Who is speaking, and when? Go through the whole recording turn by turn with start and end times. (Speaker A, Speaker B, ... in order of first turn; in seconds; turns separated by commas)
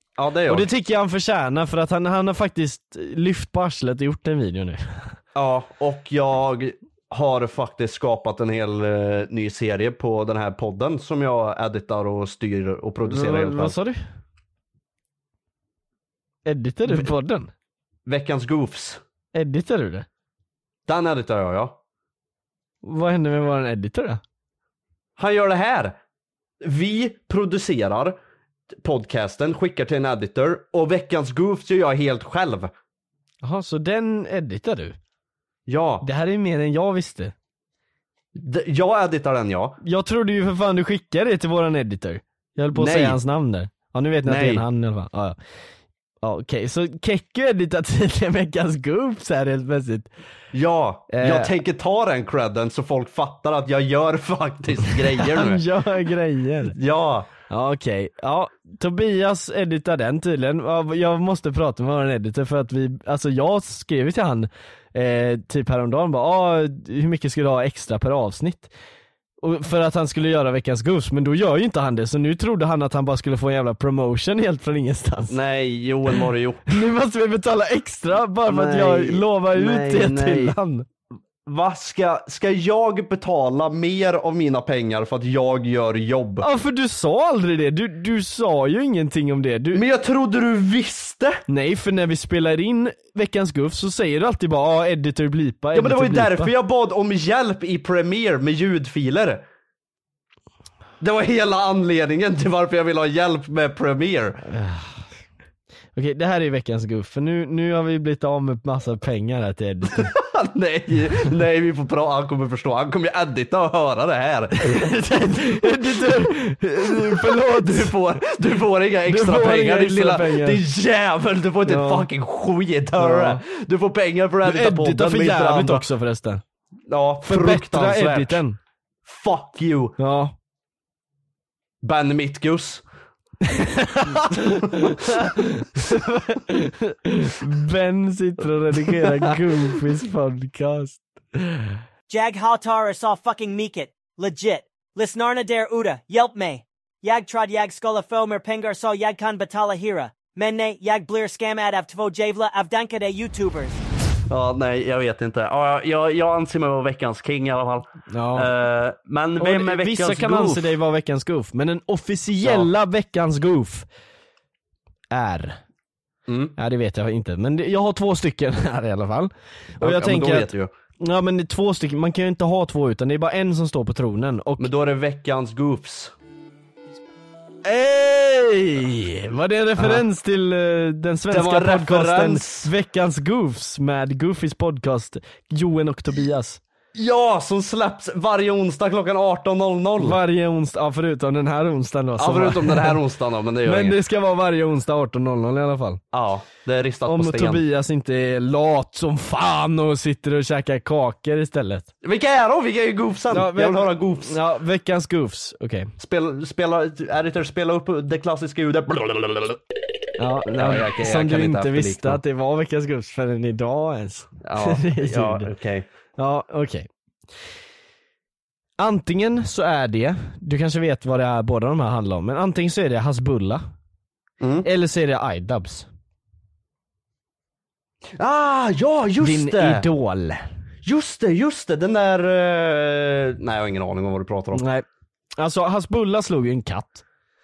Speaker A: 0.2-0.7, Speaker B: 0.5-5.2, Speaker A: 5.3-13.8, Speaker B: 13.1-14.0, Speaker B: 16.5-17.5, Speaker A: 16.9-17.1, Speaker A: 18.1-19.0, Speaker B: 19.3-20.1, Speaker A: 20.9-21.8, Speaker B: 22.8-24.2, Speaker A: 25.2-26.0, Speaker A: 26.6-28.2, Speaker A: 28.8-32.7, Speaker B: 33.4-35.0, Speaker A: 35.7-36.0, Speaker B: 36.0-37.3, Speaker A: 38.4-39.8, Speaker B: 39.8-45.4, Speaker A: 42.7-43.2, Speaker A: 44.3-44.6, Speaker B: 46.2-50.1, Speaker A: 50.5-55.6, Speaker B: 51.1-51.5, Speaker B: 55.2-56.8, Speaker A: 56.6-57.3, Speaker B: 57.5-68.7, Speaker B: 69.4-75.4, Speaker A: 75.3-76.8, Speaker B: 76.7-80.8, Speaker A: 78.5-80.6, Speaker A: 81.5-86.5, Speaker B: 86.4-89.8, Speaker A: 89.7-91.4, Speaker B: 91.5-96.5, Speaker A: 95.7-99.4, Speaker A: 101.0-104.4, Speaker B: 104.5-105.1, Speaker B: 106.0-110.2, Speaker A: 110.0-114.9, Speaker B: 114.6-118.0, Speaker A: 116.8-125.9, Speaker B: 119.1-120.6, Speaker B: 121.7-122.1, Speaker B: 123.0-123.4, Speaker B: 124.5-126.4, Speaker A: 126.9-128.4, Speaker B: 127.2-128.6, Speaker A: 129.1-130.0, Speaker B: 130.0-130.3, Speaker A: 131.8-132.8, Speaker B: 133.4-141.8, Speaker A: 134.1-135.3, Speaker A: 139.0-139.3, Speaker C: 142.1-153.8, Speaker A: 154.3-160.8, Speaker B: 158.1-158.5, Speaker B: 159.4-163.9, Speaker A: 162.4-162.7, Speaker B: 165.1-165.6, Speaker A: 166.3-166.5, Speaker B: 166.6-174.7, Speaker A: 169.8-170.7, Speaker A: 174.6-176.1, Speaker B: 177.7-186.6, Speaker A: 179.8-180.0, Speaker A: 181.3-182.7, Speaker A: 186.9-190.2, Speaker B: 190.0-193.0, Speaker A: 192.2-194.0, Speaker B: 193.7-196.0, Speaker A: 196.1-197.6, Speaker B: 197.1-201.9, Speaker A: 202.0-204.4, Speaker B: 203.3-205.9, Speaker A: 206.0-209.6, Speaker B: 210.2-215.5, Speaker A: 210.6-212.2, Speaker A: 214.4-215.9, Speaker B: 216.2-216.9, Speaker B: 218.8-223.6, Speaker A: 224.4-224.7, Speaker B: 224.6-225.9, Speaker A: 228.2-229.9, Speaker B: 229.2-230.5, Speaker A: 230.8-234.6, Speaker B: 234.6-234.8, Speaker B: 235.4-237.0